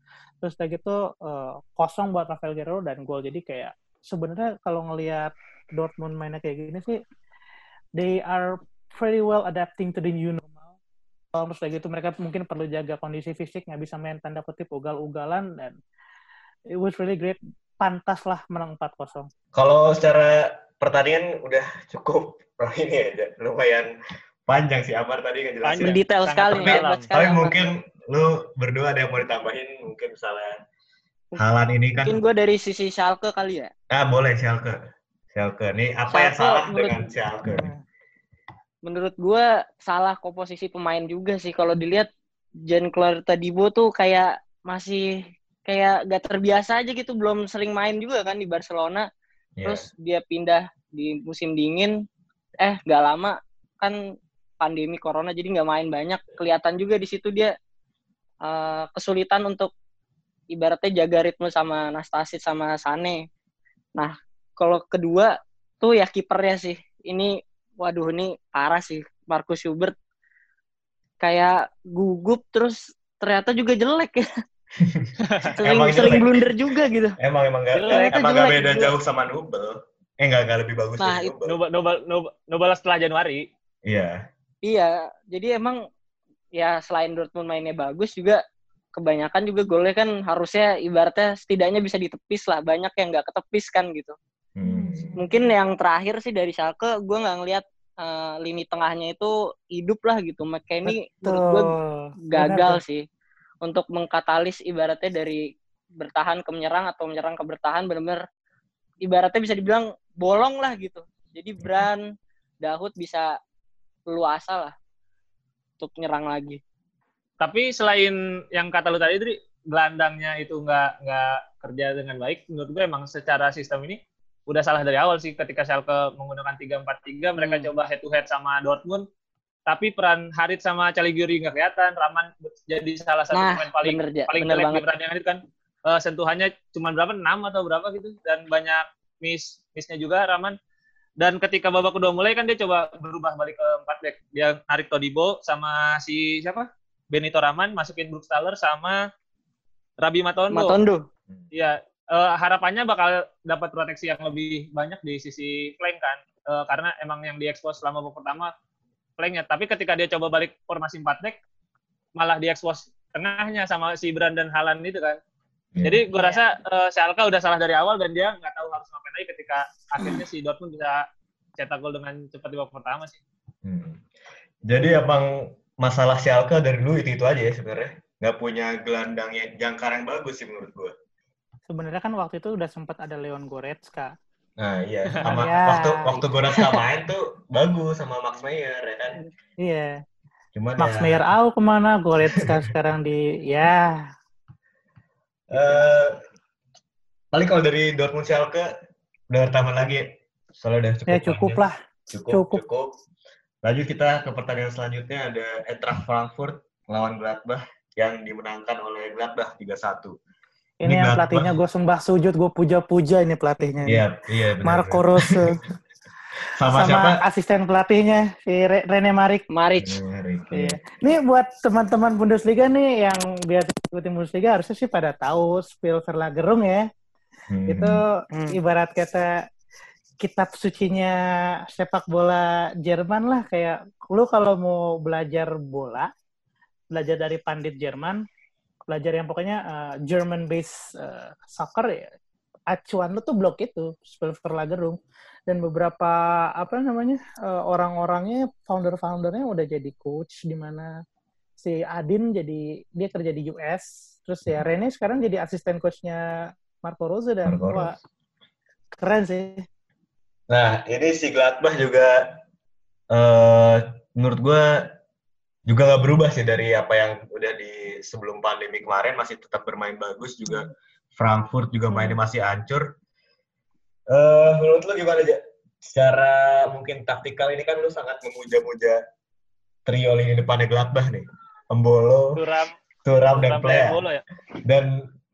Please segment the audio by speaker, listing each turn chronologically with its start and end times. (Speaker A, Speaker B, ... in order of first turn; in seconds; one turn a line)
Speaker A: 0.4-7.0
Speaker A: 8.0-10.8
Speaker A: 11.3-15.8
Speaker A: 16.8-19.3
Speaker B: 19.6-23.9
Speaker B: 24.5-26.0
Speaker C: 25.6-27.1
Speaker D: 25.8-27.6
Speaker B: 26.5-30.6
Speaker B: 31.4-32.2
Speaker D: 32.0-33.7
Speaker B: 33.9-34.8
Speaker B: 35.3-37.7
Speaker D: 36.1-37.0
Speaker A: 37.5-37.8
Speaker D: 38.9-42.1
Speaker D: 42.7-45.1
Speaker D: 45.7-49.1
Speaker B: 49.6-49.9
Speaker D: 49.6-51.9
Speaker D: 52.6-54.0
Speaker D: 54.6-57.5
Speaker D: 58.5-59.7
Speaker D: 60.5-63.2
Speaker D: 64.0-70.0
Speaker D: 71.2-74.3
Speaker B: 74.8-75.1
Speaker C: 75.4-76.2
Speaker D: 75.4-77.2
Speaker B: 75.6-81.6
Speaker C: 77.8-78.1
Speaker D: 77.8-78.9
Speaker D: 81.0-81.3
Speaker C: 81.5-83.5
Speaker B: 83.9-84.2
Speaker D: 84.6-85.8
Speaker D: 86.6-88.4
Speaker D: 89.0-94.2
Speaker B: 94.6-95.4
Speaker D: 95.2-101.7
Speaker A: 100.9-102.8
Speaker D: 102.3-103.0
Speaker D: 103.6-105.4
Speaker D: 106.0-108.2
Speaker D: 109.0-112.0
Speaker D: 112.6-113.3
Speaker D: 114.1-114.7
Speaker D: 115.8-116.6
Speaker C: 117.4-129.1
Speaker D: 127.4-127.7
Speaker C: 129.7-140.6
Speaker D: 133.3-134.8
Speaker C: 141.2-149.0
Speaker C: 150.0-150.8
Speaker D: 150.5-151.1
Speaker C: 151.5-158.5
Speaker C: 159.2-161.4
Speaker C: 162.2-165.2
Speaker B: 165.8-166.0
Speaker C: 165.8-171.0
Speaker C: 171.6-173.2
Speaker B: 173.6-174.0
Speaker B: 174.7-180.9
Speaker A: 181.7-184.1
Speaker B: 184.6-189.2
Speaker A: 185.3-186.2
Speaker A: 189.6-190.0
Speaker B: 190.6-191.2
Speaker A: 190.8-194.0
Speaker B: 195.5-196.2
Speaker B: 197.3-198.7
Speaker B: 199.3-202.9
Speaker A: 201.1-201.8
Speaker A: 202.3-202.6
Speaker B: 203.6-210.2
Speaker A: 210.8-214.0
Speaker B: 210.9-211.6
Speaker B: 213.9-215.4
Speaker A: 214.6-215.6
Speaker B: 216.6-217.2
Speaker A: 216.7-219.4
Speaker D: 219.5-220.0
Speaker B: 219.8-220.8
Speaker A: 220.5-226.9
Speaker B: 227.5-228.0
Speaker A: 227.7-229.4
Speaker D: 228.3-228.6
Speaker A: 230.2-231.2
Speaker A: 231.7-236.1
Speaker A: 236.9-238.2
Speaker A: 238.9-242.1
Speaker A: 242.7-250.9
Speaker A: 251.6-256.2
Speaker A: 256.8-258.0
Speaker B: 257.4-258.0
Speaker A: 259.0-259.6
Speaker B: 260.5-262.4
Speaker B: 263.1-264.9
Speaker B: 265.7-272.9
Speaker B: 274.1-279.0
Speaker B: 279.9-282.4
Speaker C: 282.4-282.7
Speaker B: 283.1-284.0
Speaker C: 283.3-284.2
Speaker B: 284.6-285.0